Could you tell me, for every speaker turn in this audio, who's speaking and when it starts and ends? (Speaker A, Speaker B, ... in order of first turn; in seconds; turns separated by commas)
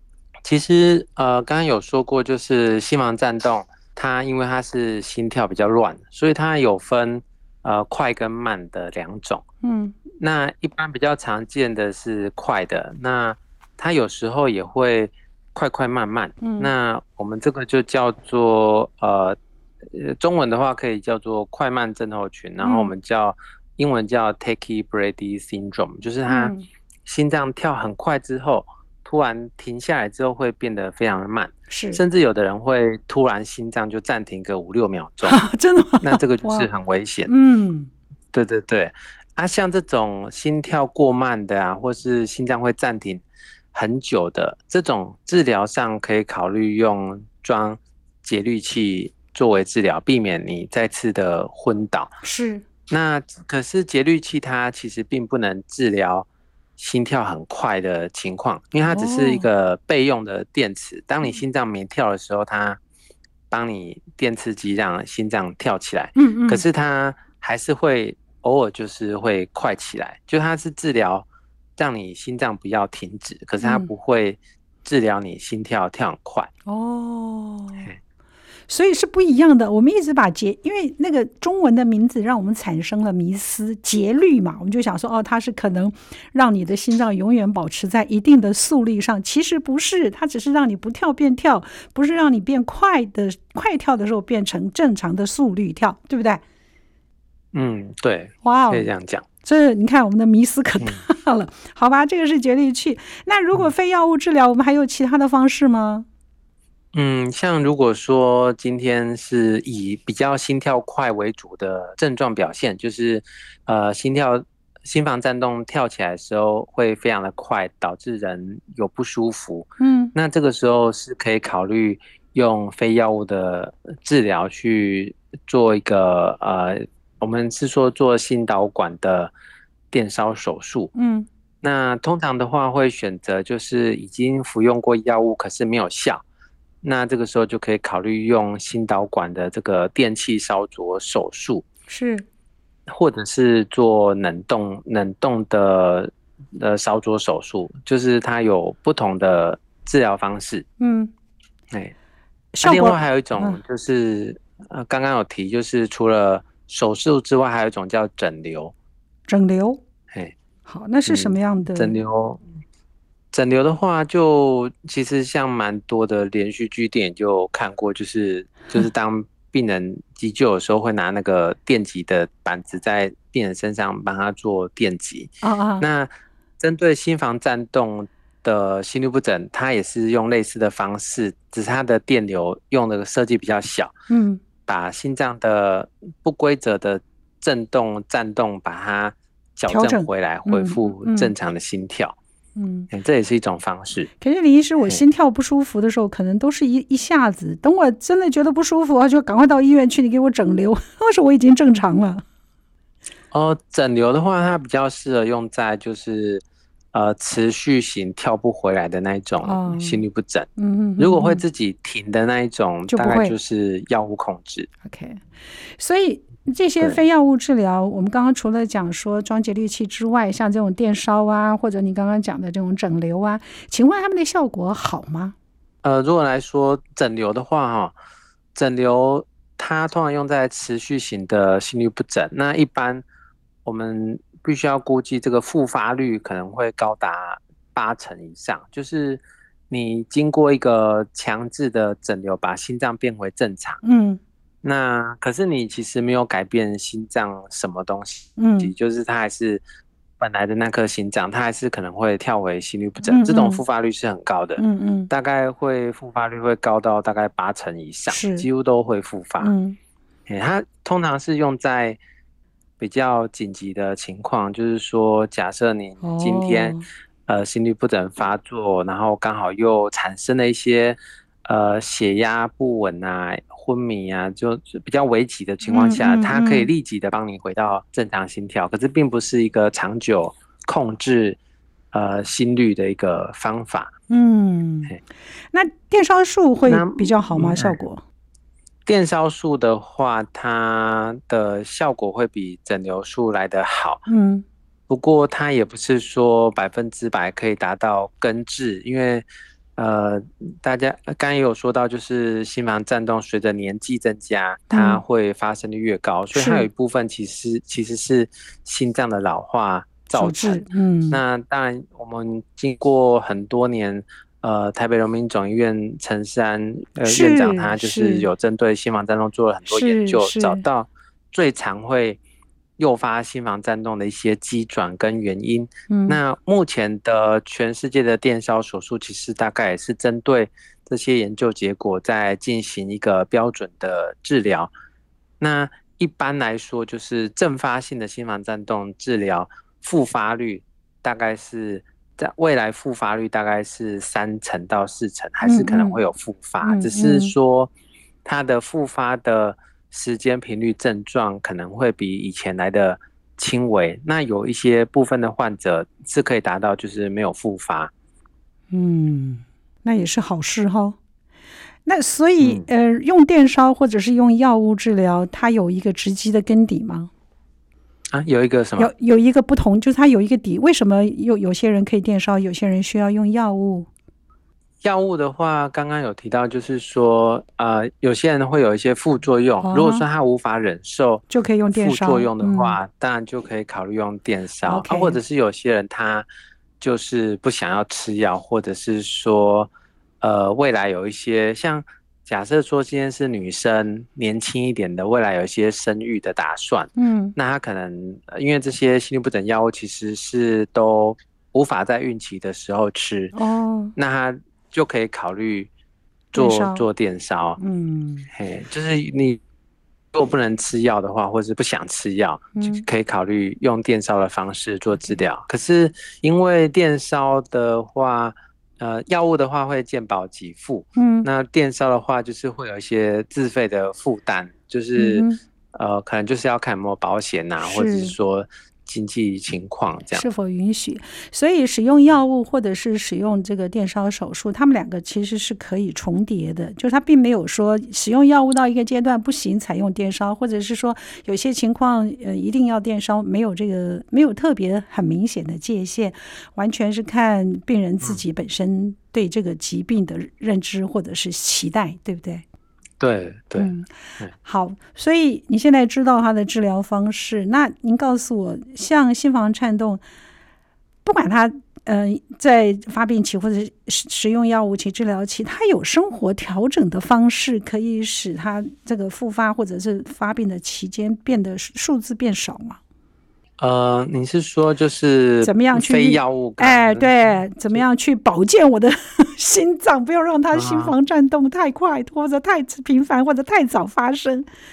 Speaker A: 0.4-9.4, Speaker B: 9.6-10.0, Speaker A: 10.2-26.5, Speaker B: 16.4-16.7, Speaker B: 22.6-22.9, Speaker B: 26.3-26.6, Speaker A: 27.1-35.4, Speaker B: 31.7-32.0, Speaker B: 35.2-36.7, Speaker A: 36.0-37.3, Speaker B: 37.3-37.9, Speaker A: 38.3-43.2, Speaker A: 43.7-52.1, Speaker B: 52.2-52.6, Speaker A: 52.9-56.3, Speaker A: 56.8-62.8, Speaker B: 58.9-59.5, Speaker A: 63.5-71.2, Speaker B: 66.2-66.6, Speaker A: 71.8-76.5, Speaker B: 73.6-73.9, Speaker B: 76.7-77.9, Speaker B: 78.7-96.4, Speaker A: 97.5-99.2, Speaker B: 98.4-98.9, Speaker B: 99.4-106.0, Speaker A: 106.9-129.3, Speaker B: 119.8-120.1, Speaker A: 129.9-130.9, Speaker B: 130.9-131.3, Speaker A: 131.6-136.2, Speaker A: 136.8-141.7, Speaker B: 141.9-142.2, Speaker A: 142.9-150.6, Speaker B: 150.8-151.1, Speaker B: 152.5-153.6, Speaker A: 152.6-158.7, Speaker B: 159.3-159.8, Speaker B: 160.7-161.9, Speaker A: 161.1-162.4, Speaker A: 163.3-183.9, Speaker B: 175.4-175.9, Speaker B: 184.1-184.4, Speaker A: 184.7-192.2, Speaker B: 189.7-191.3, Speaker B: 192.6-192.9, Speaker A: 192.9-194.1, Speaker B: 194.2-202.2, Speaker A: 203.3-214.7, Speaker B: 209.4-210.0, Speaker B: 210.6-211.4, Speaker B: 212.9-213.4, Speaker B: 214.8-215.2, Speaker B: 215.8-225.3, Speaker A: 225.8-227.9, Speaker A: 228.5-233.0, Speaker A: 233.6-243.8, Speaker B: 243.8-244.2, Speaker A: 244.6-249.6, Speaker B: 248.4-248.7, Speaker A: 250.2-259.5, Speaker B: 253.0-253.6, Speaker B: 254.6-255.1, Speaker B: 258.1-258.5, Speaker B: 259.4-259.8, Speaker A: 260.3-262.0, Speaker A: 262.8-281.4, Speaker B: 266.0-266.9, Speaker B: 275.6-276.7, Speaker A: 281.9-283.9, Speaker B: 284.1-285.0, Speaker B: 285.5-288.0, Speaker A: 286.7-287.8, Speaker A: 288.9-294.1, Speaker B: 294.1-294.4, Speaker A: 294.9-322.2, Speaker B: 304.7-305.0, Speaker B: 306.3-306.7, Speaker B: 310.1-311.2, Speaker B: 317.0-318.3, Speaker B: 319.7-320.6, Speaker A: 322.8-334.7, Speaker B: 325.9-326.2, Speaker A: 335.4-347.7, Speaker B: 345.4-346.0, Speaker B: 346.6-347.3, Speaker A: 348.2-357.9, Speaker B: 358.7-361.0, Speaker B: 361.9-367.1, Speaker A: 362.4-362.6, Speaker A: 368.1-368.9, Speaker B: 368.8-373.9, Speaker A: 374.8-386.2, Speaker B: 379.6-380.0, Speaker B: 381.3-382.8, Speaker B: 384.6-385.2, Speaker A: 386.8-403.4, Speaker B: 396.9-397.4, Speaker B: 403.4-403.9, Speaker A: 403.9-405.7, Speaker B: 406.3-406.8, Speaker A: 406.3-407.6, Speaker B: 407.6-408.3, Speaker A: 408.3-409.4, Speaker A: 410.1-430.2, Speaker B: 412.6-412.9, Speaker B: 421.0-421.3, Speaker B: 424.9-425.4, Speaker B: 427.6-428.1, Speaker B: 430.1-452.4, Speaker A: 453.0-454.3, Speaker B: 453.6-460.0, Speaker B: 461.0-472.8, Speaker A: 473.6-477.8, Speaker B: 475.4-484.5, Speaker A: 480.5-480.9